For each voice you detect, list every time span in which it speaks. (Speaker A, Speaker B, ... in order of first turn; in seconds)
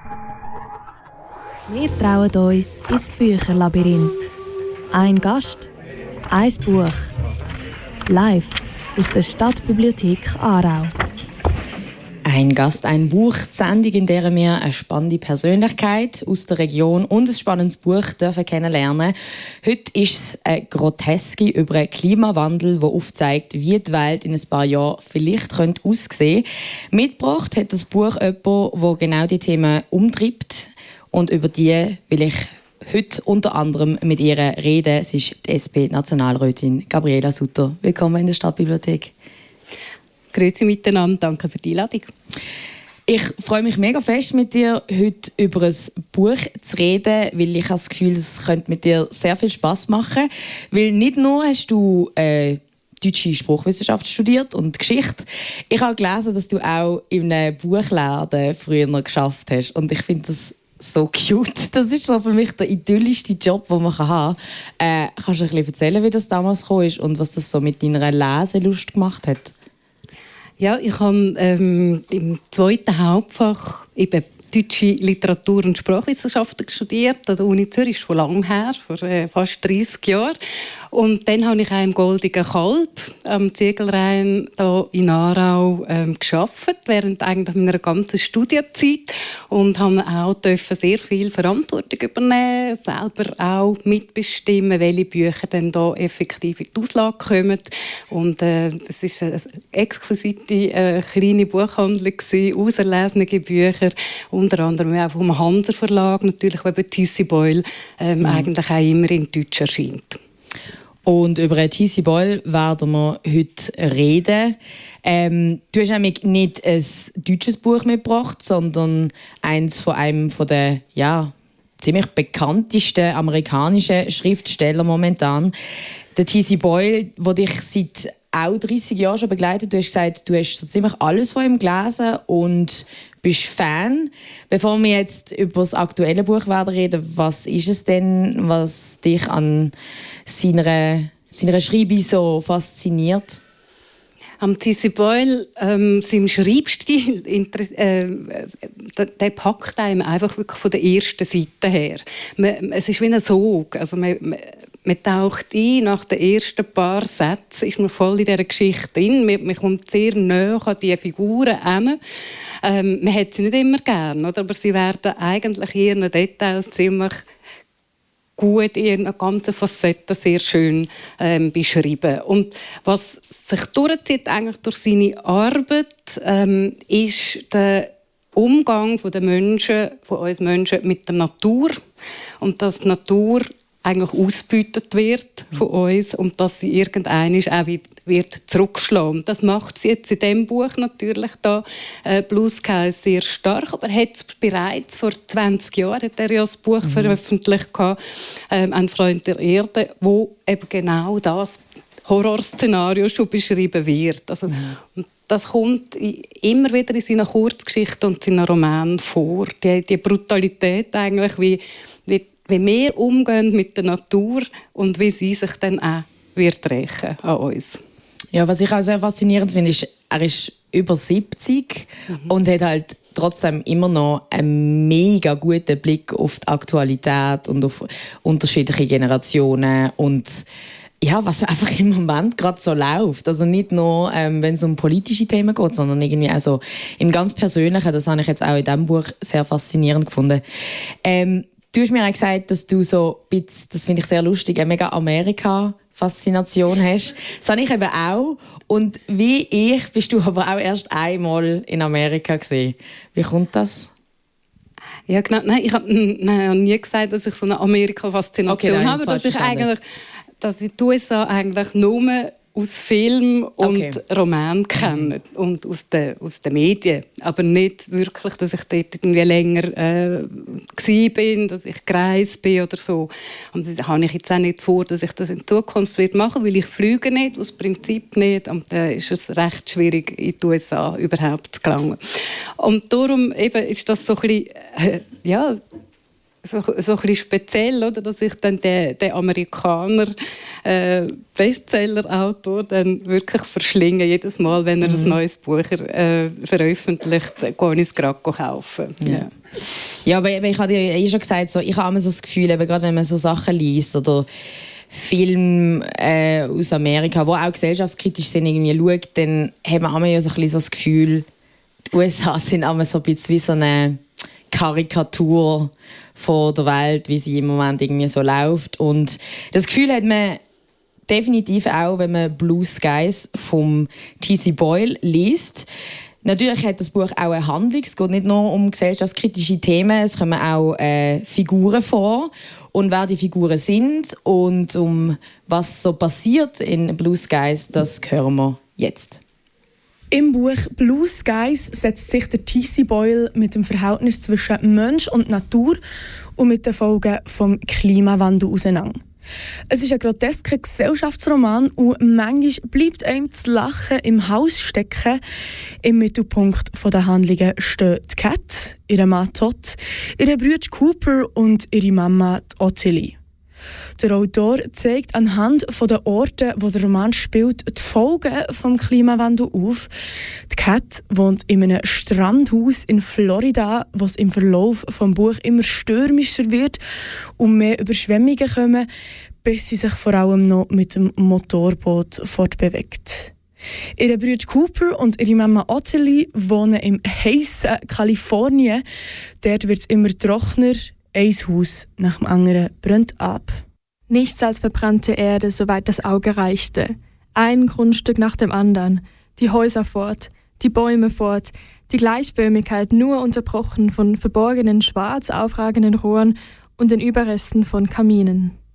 Speaker A: 1.7-4.3, 4.9-5.7, 6.3-7.1, 8.1-10.9
Speaker B: 12.3-39.1, 43.1-69.5, 108.2-108.5, 111.0-125.5, 126.2-139.8, 140.3-143.4, 196.8-197.2, 218.3-230.5, 231.0-240.4, 241.0-253.9, 258.5-259.7, 263.6-264.0, 264.8-265.1, 294.8-295.2, 300.1-304.3, 304.9-311.3, 311.9-320.4, 321.1-325.7, 326.2-339.2
Speaker C: 40.3-42.1, 70.6-80.4, 80.9-110.2, 144.4-162.0, 162.6-167.2, 168.4-181.8, 182.4-198.0, 198.5-217.8, 255.1-259.8, 260.4-282.0, 282.6-285.6, 286.4-290.1, 290.6-299.3
Speaker D: 340.1-345.8, 346.4-349.0, 349.7-355.2, 355.8-363.2, 364.0-369.9, 370.5-376.8, 377.4-378.9, 379.4-383.3, 384.0-388.8, 389.4-393.6
Speaker E: 394.1-408.5